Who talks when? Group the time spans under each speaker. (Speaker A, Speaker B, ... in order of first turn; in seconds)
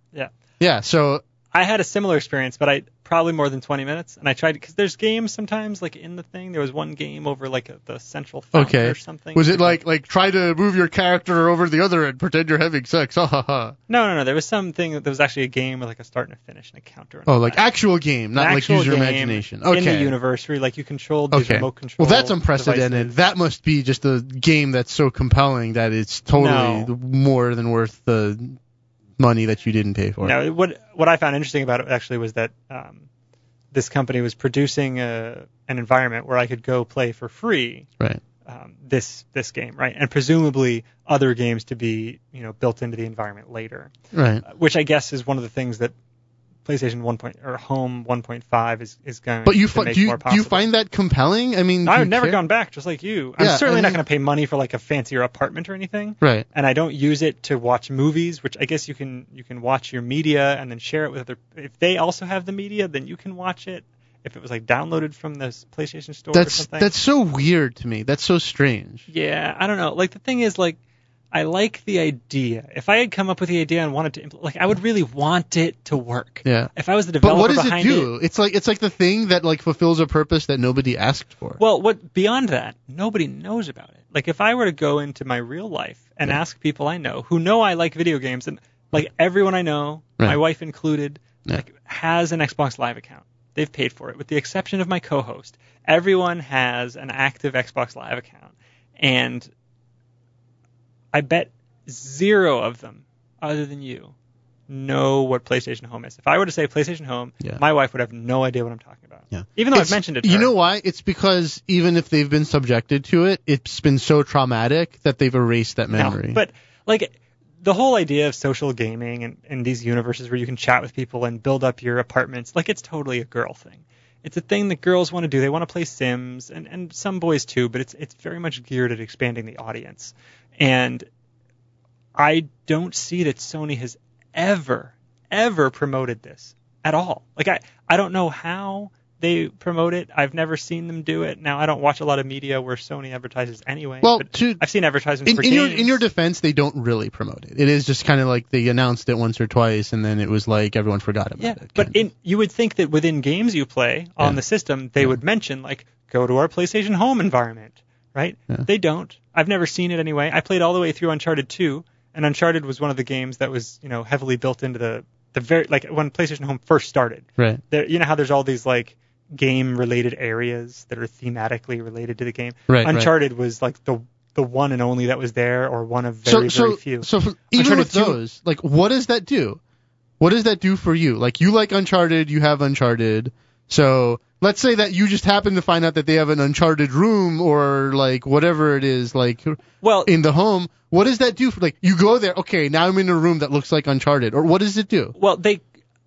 Speaker A: 0.6-1.2, 8.5-13.8, 17.3-20.2, 21.3-28.6, 29.2-30.4, 44.1-44.4, 49.5-52.4, 53.4-54.0, 56.2-56.5, 66.3-69.0, 76.4-81.6, 109.3-116.4, 144.0-144.6, 145.3-152.0, 172.7-173.1, 176.3-179.6, 180.2-195.2
Speaker B: 1.5-9.8, 13.9-17.6, 18.4-23.1, 26.4-26.9, 30.2-33.1, 33.7-37.9, 38.5-43.9, 44.5-45.9, 46.6-50.7, 51.8-66.9, 69.1-70.8, 71.3-78.1, 81.6-99.5, 101.1-104.1, 104.7-110.5, 115.9-131.1, 132.2-146.0, 151.4-178.2, 189.8-190.1, 195.2-195.6